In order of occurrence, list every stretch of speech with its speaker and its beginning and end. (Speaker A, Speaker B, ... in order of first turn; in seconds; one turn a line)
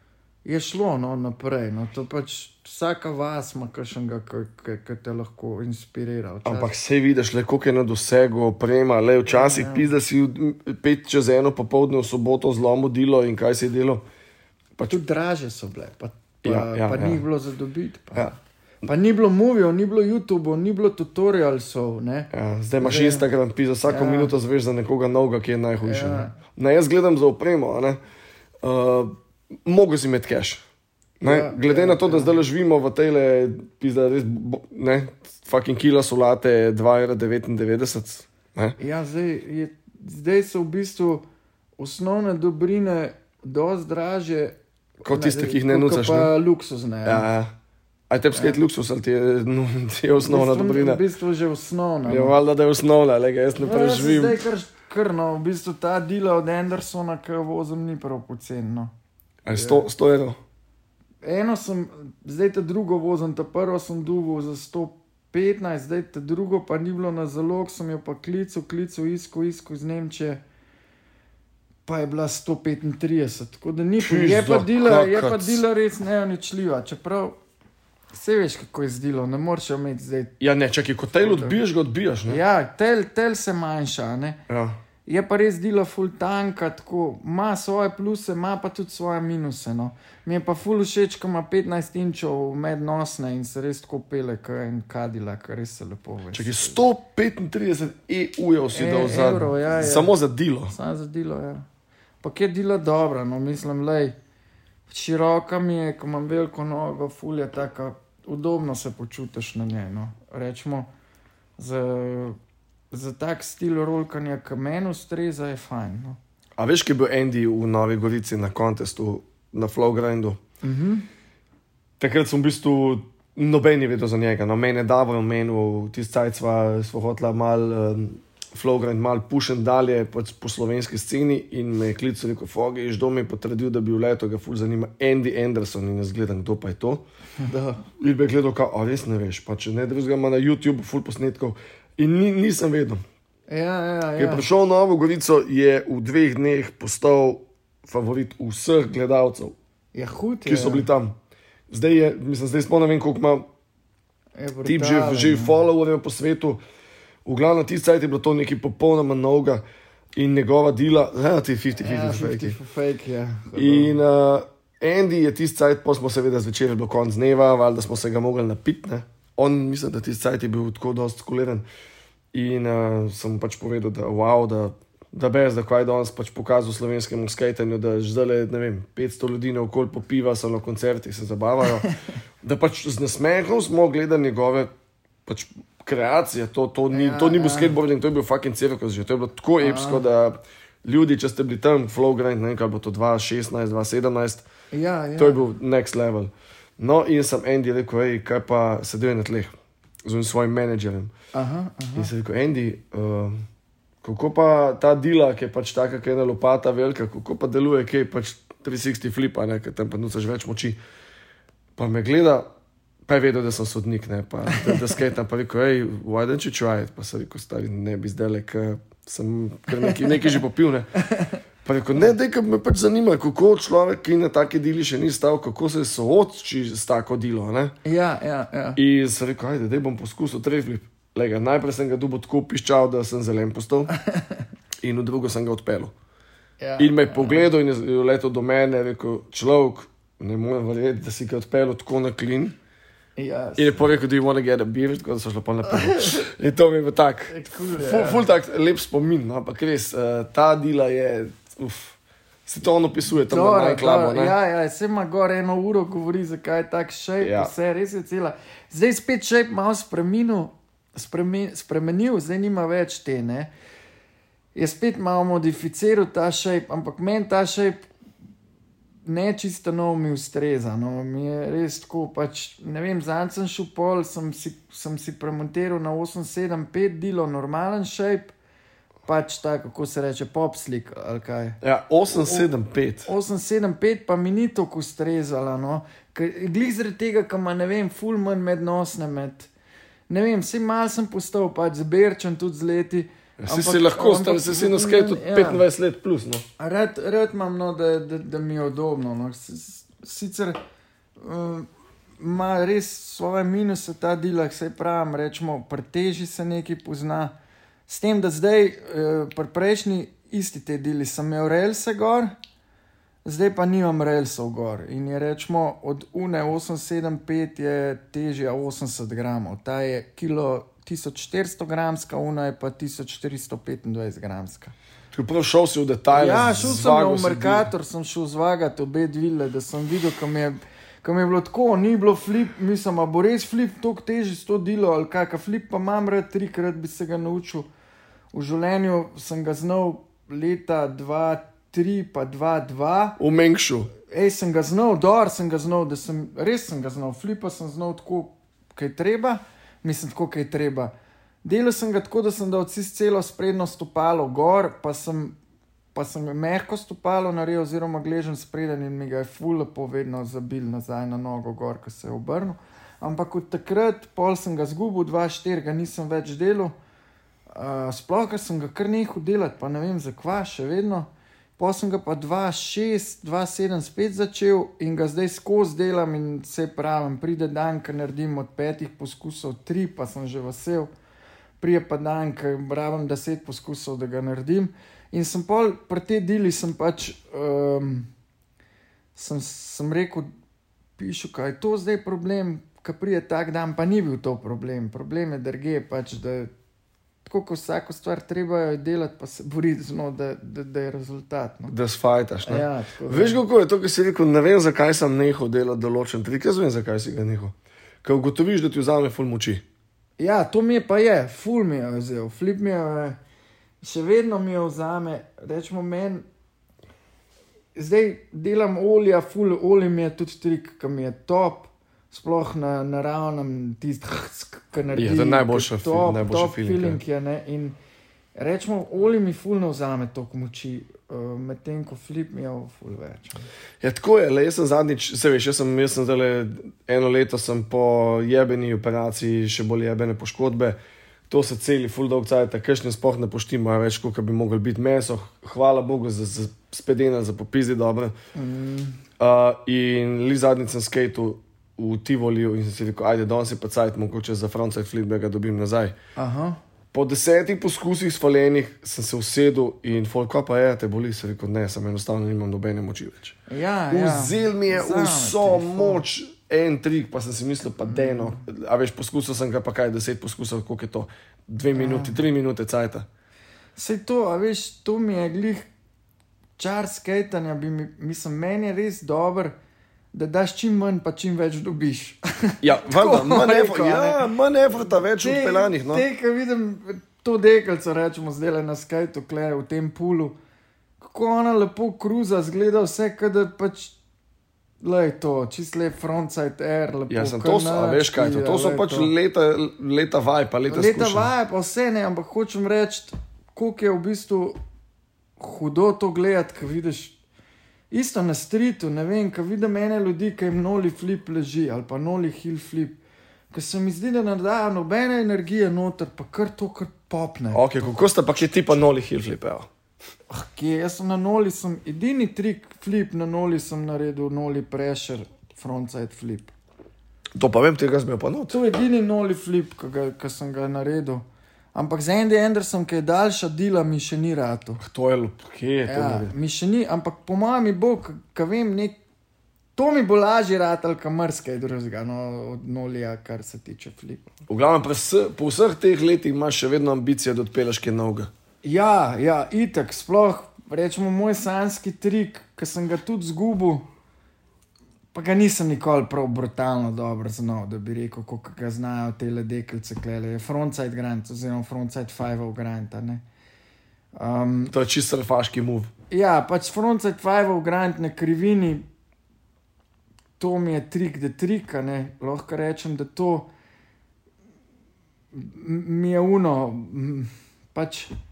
Speaker A: 0.5-6.7
Speaker B: 6.5-14.1
Speaker A: 9.2-9.9
Speaker A: 14.9-23.3
Speaker B: 16.4-17.2
Speaker B: 22.3-28.0
Speaker A: 23.9-24.3
Speaker A: 25.8-26.4
Speaker B: 28.6-29.1
Speaker B: 29.6-30.6
Speaker B: 31.2-38.8
Speaker A: 31.2-32.4
Speaker A: 38.8-41.2
Speaker A: 41.8-44.5
Speaker B: 45.0-46.3
Speaker A: 45.1-47.3
Speaker B: 47.1-47.5
Speaker B: 48.1-51.0
Speaker A: 48.3-48.6
Speaker A: 50.2-52.4
Speaker B: 52.1-54.4
Speaker A: 53.6-58.9
Speaker B: 59.5-60.4
Speaker A: 59.5-59.9
Speaker A: 61.2-70.4
Speaker A: 71.9-77.3
Speaker B: 74.0-75.6
Speaker A: 78.1-80.3
Speaker B: 80.4-82.4
Speaker A: 81.2-81.6
Speaker A: 82.3-84.4
Speaker B: 84.5-84.8
Speaker A: 85.1-96.8
Speaker B: 96.3-100.7
Speaker A: 98.7-100.2
Speaker A: 100.7-101.7
Speaker A: 102.2-104.2
Speaker A: 104.9-110.9
Speaker A: 111.6-112.4
Speaker A: 112.9-116.2
Speaker B: 116.6-120.4
Speaker A: 120.6-121.1
Speaker B: 122.0-137.1
Speaker A: 137.4-137.8
Speaker B: 138.0-143.0
Speaker A: 143.5-144.5
Speaker B: 144.2-149.6
Speaker A: 149.9-150.9
Speaker B: 150.5-151.2
Speaker B: 151.7-153.5
Speaker A: 154.4-155.7
Speaker B: 154.7-156.6
Speaker B: 157.2-159.6
Speaker B: 160.2-162.6
Speaker A: 161.8-164.0
Speaker B: 163.6-171.7
Speaker B: 172.3-181.9
Speaker B: 182.4-184.7
Speaker B: 185.3-194.5
Speaker A: 186.9-187.8
Speaker A: 189.6-190.0
Speaker A: 194.7-195.4
Speaker B: 195.2-201.1
Speaker A: 201.3-202.1
Speaker B: 202.0-203.4
Speaker B: 204.0-210.8
Speaker B: 211.8-212.5
Speaker B: 213.1-220.9
Speaker A: 219.7-220.4
Speaker A: 221.0-221.4
Speaker B: 221.7-227.8
Speaker A: 227.8-228.8
Speaker B: 228.8-233.9
Speaker A: 234.1-234.4
Speaker B: 234.8-235.9
Speaker A: 236.6-237.5
Speaker B: 236.8-242.6
Speaker A: 243.2-244.0
Speaker B: 243.6-254.3
Speaker A: 245.7-246.2
Speaker A: 247.3-248.3
Speaker A: 253.2-263.5
Speaker B: 257.2-257.5
Speaker A: 264.6-267.9
Speaker A: 269.1-278.3
Speaker A: 279.1-281.6
Speaker B: 281.6-283.1
Speaker A: 282.1-282.5
Speaker A: 283.1-289.5
Speaker A: 290.1-295.6
Speaker B: 293.4-296.4
Speaker A: 296.6-300.6
Speaker A: 301.2-301.7
Speaker A: 302.2-307.3
Speaker A: 307.9-312.3
Speaker A: 313.2-324.7
Speaker B: 325.1-327.7
Speaker A: 326.1-337.7
Speaker A: 338.3-343.2
Speaker B: 343.2-343.9
Speaker A: 344.1-350.9
Speaker A: 351.4-355.4
Speaker A: 355.9-366.7
Speaker A: 367.5-380.9
Speaker A: 381.6-388.1
Speaker A: 389.1-390.3
Speaker A: 391.0-396.5
Speaker A: 397.3-401.7
Speaker B: 401.7-409.6
Speaker A: 402.4-403.4
Speaker A: 410.2-413.2
Speaker A: 413.8-416.2
Speaker A: 417.8-427.8
Speaker B: 424.9-427.0
Speaker A: 428.4-433.5
Speaker B: 433.8-440.8
Speaker B: 441.3-448.1
Speaker A: 448.4-449.0
Speaker B: 449.2-455.9
Speaker A: 456.2-456.6
Speaker B: 456.9-463.4
Speaker A: 463.5-466.1
Speaker B: 463.9-473.1
Speaker A: 467.8-468.4
Speaker A: 471.8-472.2
Speaker A: 473.8-475.7
Speaker A: 476.6-479.5
Speaker A: 480.1-484.3
Speaker B: 482.6-486.0
Speaker A: 484.8-490.4
Speaker A: 491.0-493.9
Speaker A: 494.8-499.1
Speaker B: 497.1-501.3
Speaker A: 500.7-504.6
Speaker A: 505.4-507.2
Speaker A: 507.9-513.0
Speaker A: 513.5-518.0
Speaker B: 517.5-519.7
Speaker A: 520.3-526.5
Speaker B: 527.4-528.6
Speaker A: 528.5-531.2
Speaker A: 531.8-534.8
Speaker B: 534.8-536.3
Speaker A: 535.9-539.0
Speaker A: 539.8-544.3
Speaker B: 544.5-548.3
Speaker A: 548.6-553.9
Speaker A: 555.1-563.2
Speaker A: 564.1-564.7
Speaker B: 564.7-565.9
Speaker A: 566.1-568.9
Speaker A: 570.4-573.5
Speaker A: 575.3-578.1